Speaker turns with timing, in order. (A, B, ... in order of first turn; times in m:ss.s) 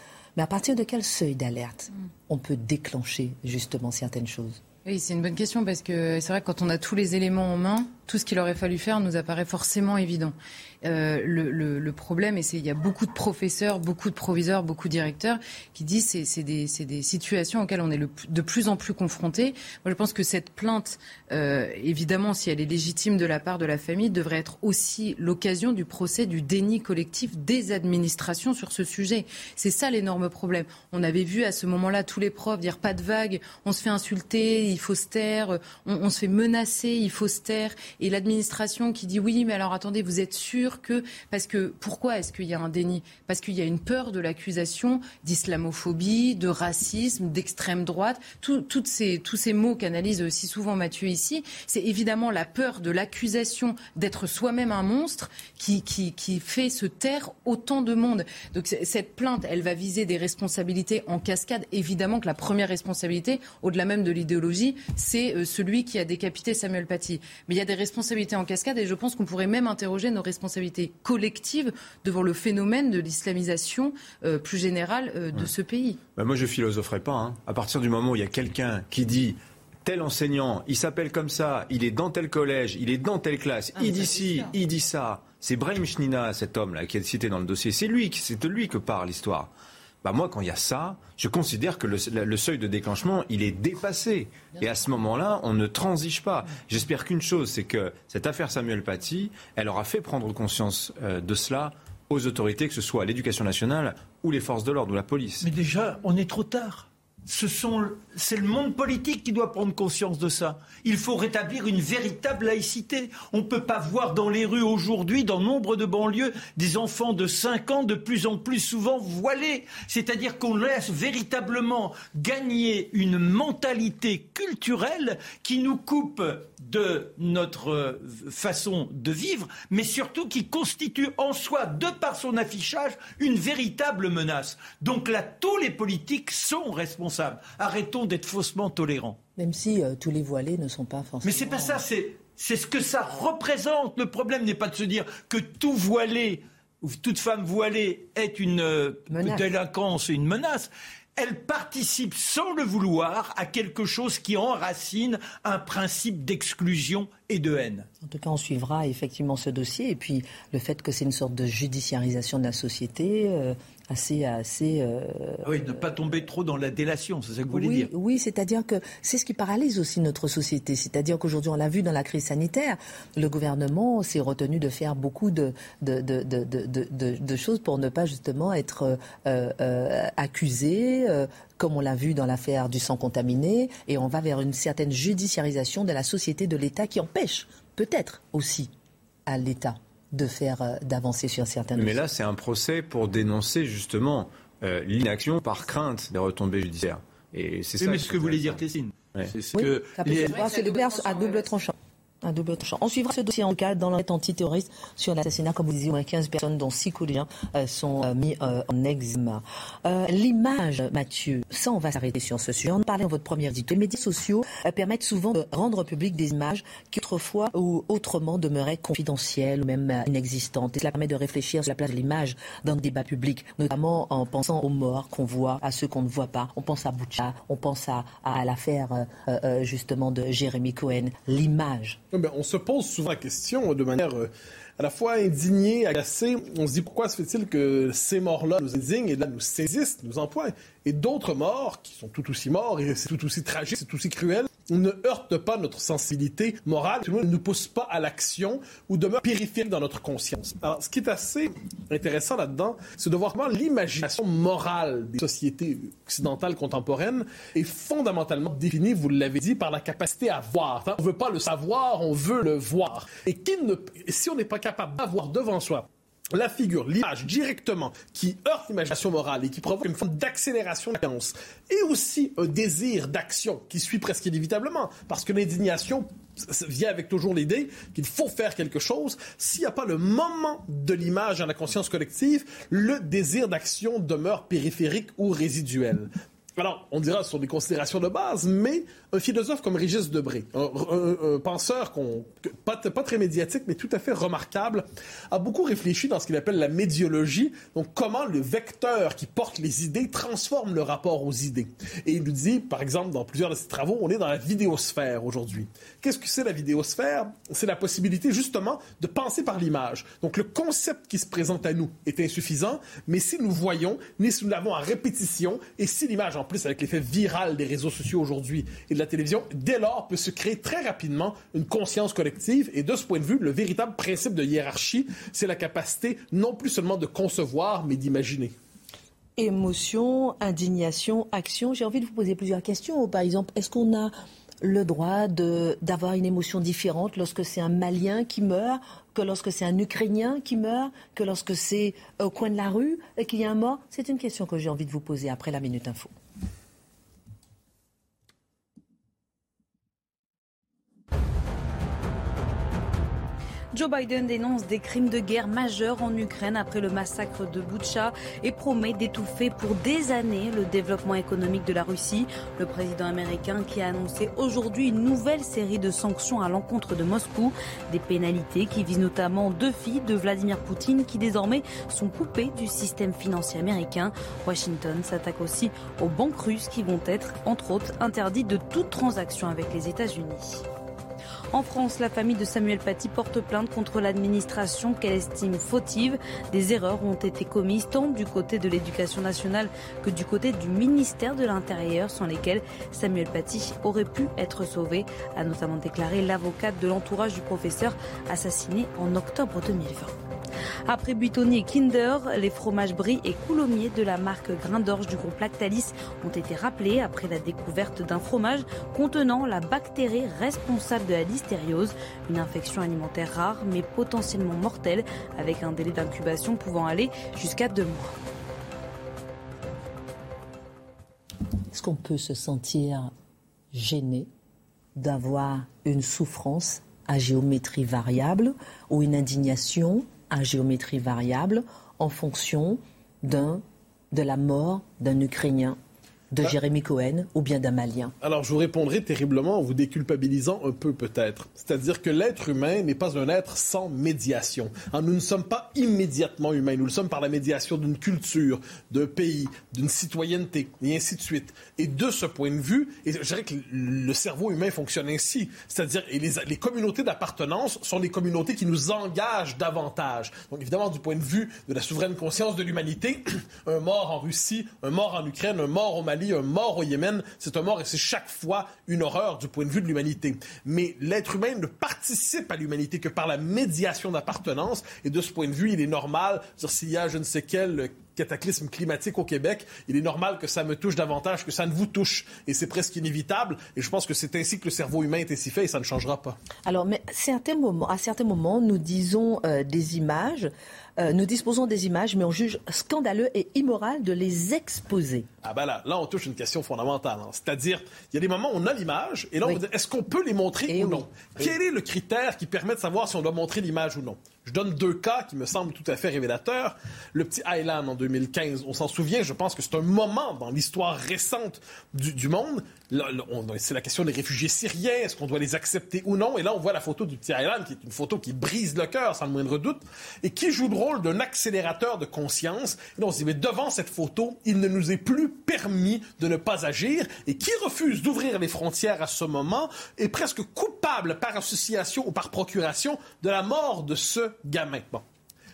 0:00.3-0:04.6 A
0:04.8-1:16.0 B
1:16.2-1:29.5 C
1:23.9-1:24.4 B
1:30.0-1:45.5 C
1:45.4-2:19.2 D
2:19.4-2:21.8 A
2:21.2-2:37.9 D
2:29.1-2:29.5 A
2:38.0-2:45.7 A
2:45.4-2:47.9 D
2:47.5-3:08.7 A
3:09.2-3:12.0 A
3:11.8-3:18.6 C
3:17.8-3:20.3 D
3:19.5-3:52.0 A
3:20.1-3:21.6 B
3:52.1-5:28.5 E
5:29.4-5:46.1 A
5:53.7-6:20.6 F
6:21.5-6:40.1 F
6:40.9-6:58.1 F
7:01.7-7:03.1 A
7:03.7-7:04.3 A
7:04.9-7:15.8 A
7:16.3-7:18.1 A
7:18.2-8:06.4 E
8:06.6-8:15.3 A
8:15.4-8:55.0 E
8:20.7-8:21.5 A